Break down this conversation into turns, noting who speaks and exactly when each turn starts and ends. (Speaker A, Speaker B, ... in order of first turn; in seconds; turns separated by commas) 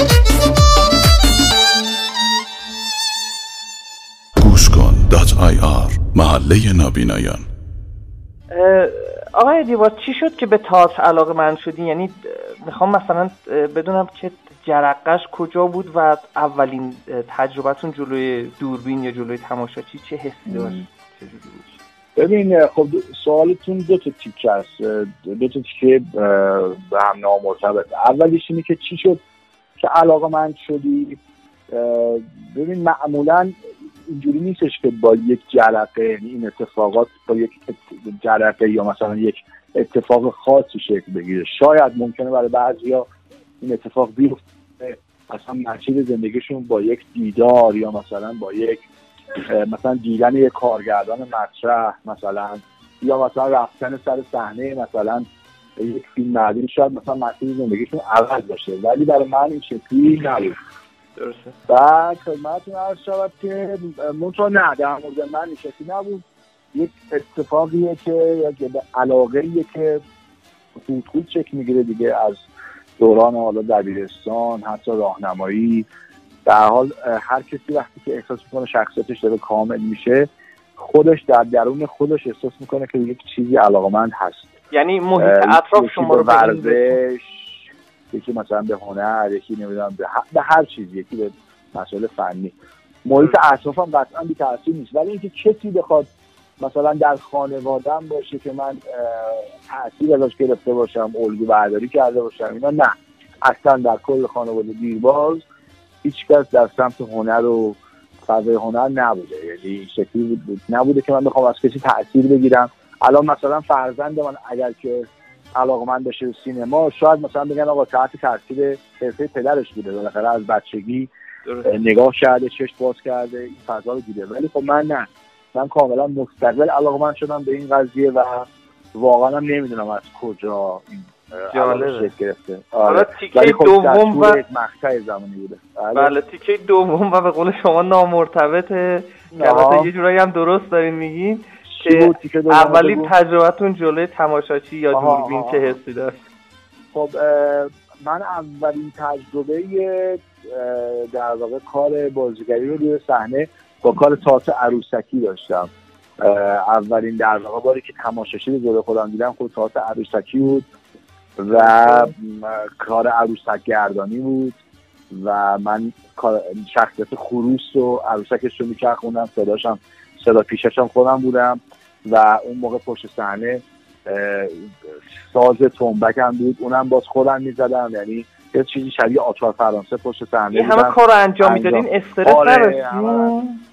Speaker A: 4.4-7.5, Speaker B: 8.5-21.7, Speaker C: 20.5-20.8, Speaker C: 22.1-29.2, Speaker C: 29.8-43.1, Speaker C: 43.6-48.9, Speaker C: 49.4-60.6, Speaker B: 61.2-61.5, Speaker C: 61.7-70.0, Speaker C: 70.7-72.4, Speaker C: 73.0-75.9, Speaker C: 76.4-84.5, Speaker B: 84.7-87.0, Speaker C: 85.2-105.4, Speaker C: 106.0-121.1, Speaker B: 121.5-121.8, Speaker C: 121.6-136.1, Speaker B: 131.5-132.1, Speaker B: 132.8-134.4, Speaker B: 135.9-146.2, Speaker C: 139.3-139.9, Speaker C: 141.7-143.1, Speaker C: 144.9-145.8, Speaker C: 146.9-160.7, Speaker C: 161.4-164.6, Speaker B: 161.5-162.1, Speaker C: 165.1-174.7, Speaker C: 175.2-183.4, Speaker B: 180.5-183.6